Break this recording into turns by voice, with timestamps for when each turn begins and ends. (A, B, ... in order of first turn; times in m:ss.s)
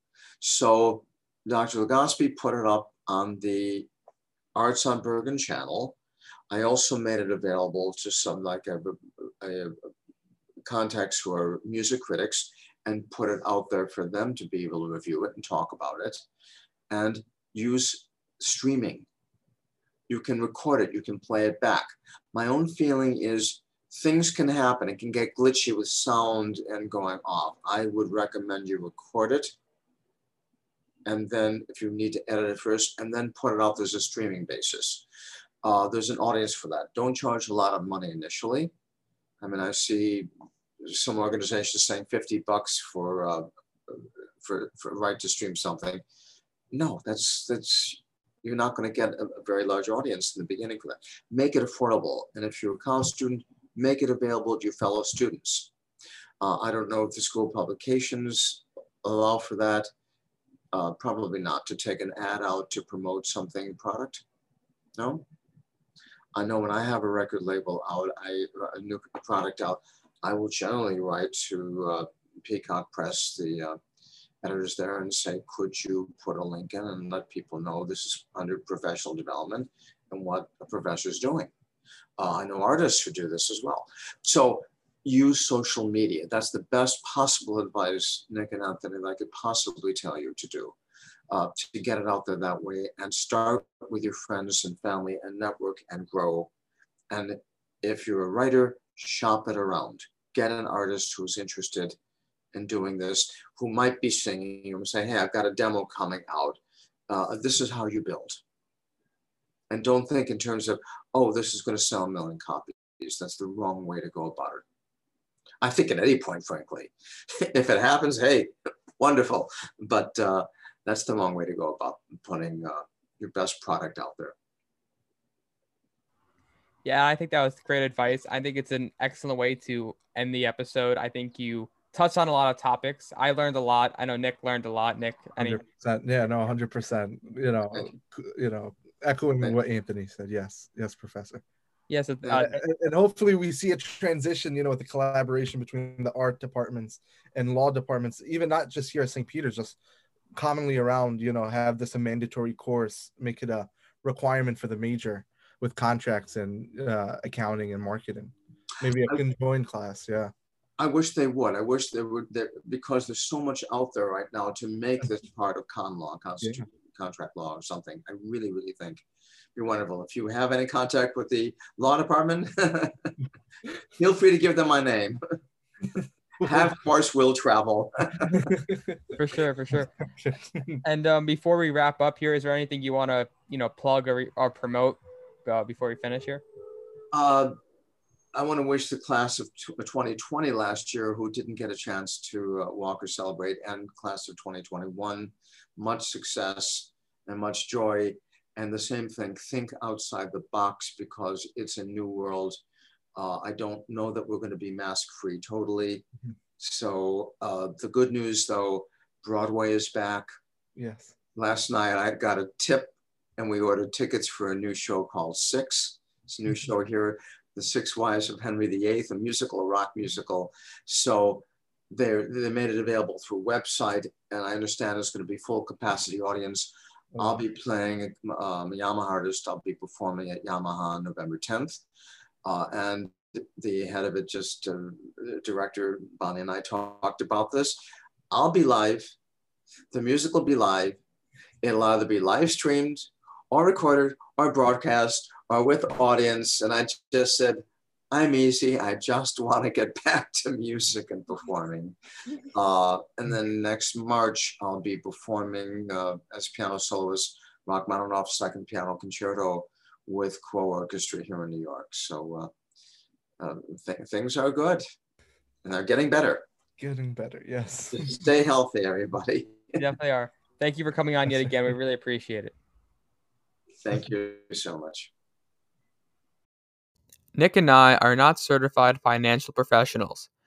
0:00.4-0:03.9 A
0:04.5-0:06.0 A
0:06.5-0:09.8 A
0:10.6-0:16.2 A
0:16.9-0:19.1 A
0:20.1-0:29.5 A
0:31.0-0:35.0 A
0:35.6-0:38.7 A
0:39.4-0:40.3 A
0:40.8-0:46.0 A
0:46.7-0:55.7 A
0:56.4-0:59.9 A
1:00.7-1:04.2 A
1:05.0-1:05.2 A
1:06.3-1:13.8 A
1:14.4-1:21.5 A
1:22.2-1:30.8 A
1:31.3-1:36.5 A
1:37.1-1:42.0 A
1:42.5-1:48.4 A
1:49.7-1:54.6 A
1:55.6-2:04.3 A
2:06.8-2:15.6 B
2:15.4-2:21.4 C
2:21.9-2:22.6 B
2:22.3-2:29.8 C
2:30.3-2:40.3 C
2:40.8-2:53.1 A
2:54.0-2:55.2 A
2:55.9-2:58.6 A
2:59.2-2:59.9 B
3:00.2-3:00.8 C
3:00.8-3:06.4 B
3:07.1-3:07.5 A
3:08.3-3:22.6 A
3:23.2-3:26.0 A
3:26.6-3:30.3 A
3:30.8-3:31.1 C
3:31.3-3:51.8 A
3:52.4-3:57.8 A
3:58.3-3:59.1 A
3:59.9-4:01.0 A
4:01.6-4:12.0 A
4:12.5-4:22.5 A
4:23.4-4:24.8 A
4:25.6-4:26.4 A
4:26.8-4:28.2 C
4:27.9-4:29.7 A
4:29.8-4:32.5 B
4:33.8-4:35.1 A
4:37.3-4:40.3 B